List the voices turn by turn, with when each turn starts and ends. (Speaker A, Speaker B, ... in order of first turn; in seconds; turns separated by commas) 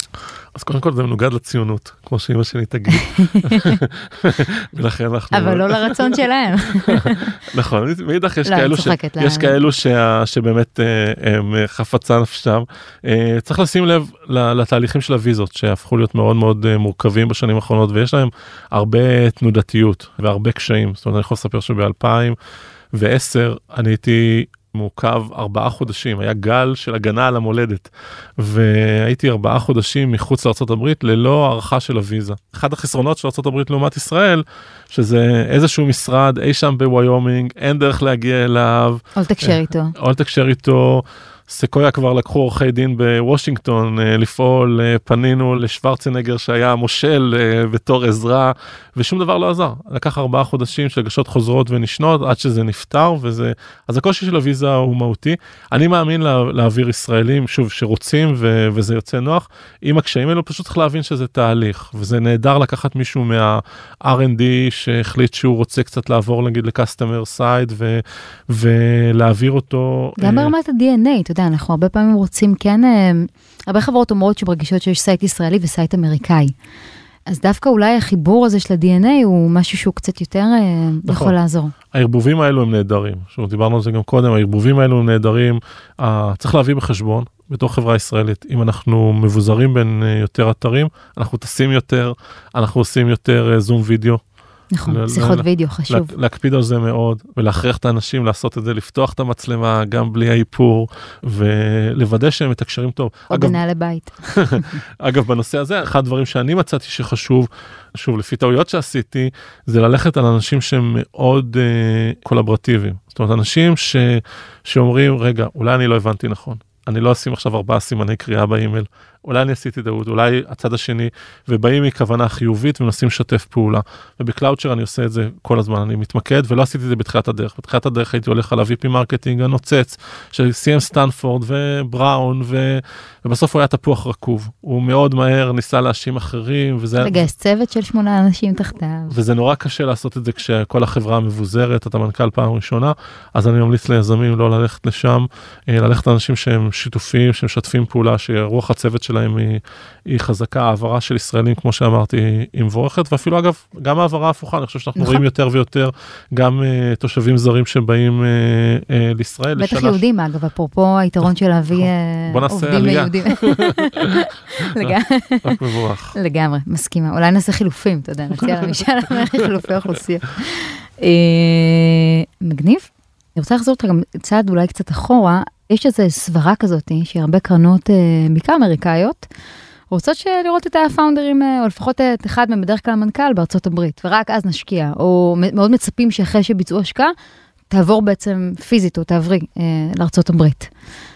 Speaker A: 0.6-6.2, Speaker B: 3.0-3.8, Speaker B: 5.3-7.4, Speaker A: 6.9-22.4, Speaker B: 8.5-9.6, Speaker A: 22.9-70.5, Speaker B: 39.2-40.0, Speaker B: 70.2-76.5, Speaker B: 77.3-81.7, Speaker A: 81.1-81.4, Speaker A: 81.9-94.2, Speaker B: 94.7-96.1, Speaker A: 94.9-103.6, Speaker B: 103.3-104.8, Speaker A: 104.3-137.3, Speaker B: 137.0-139.1, Speaker A: 139.1-160.0, Speaker B: 155.0-155.2, Speaker B: 159.6-165.6, Speaker A: 161.8-164.2, Speaker A: 165.4-166.2, Speaker B: 166.1-179.3, Speaker B: 179.9-187.2, Speaker B: 187.7-190.7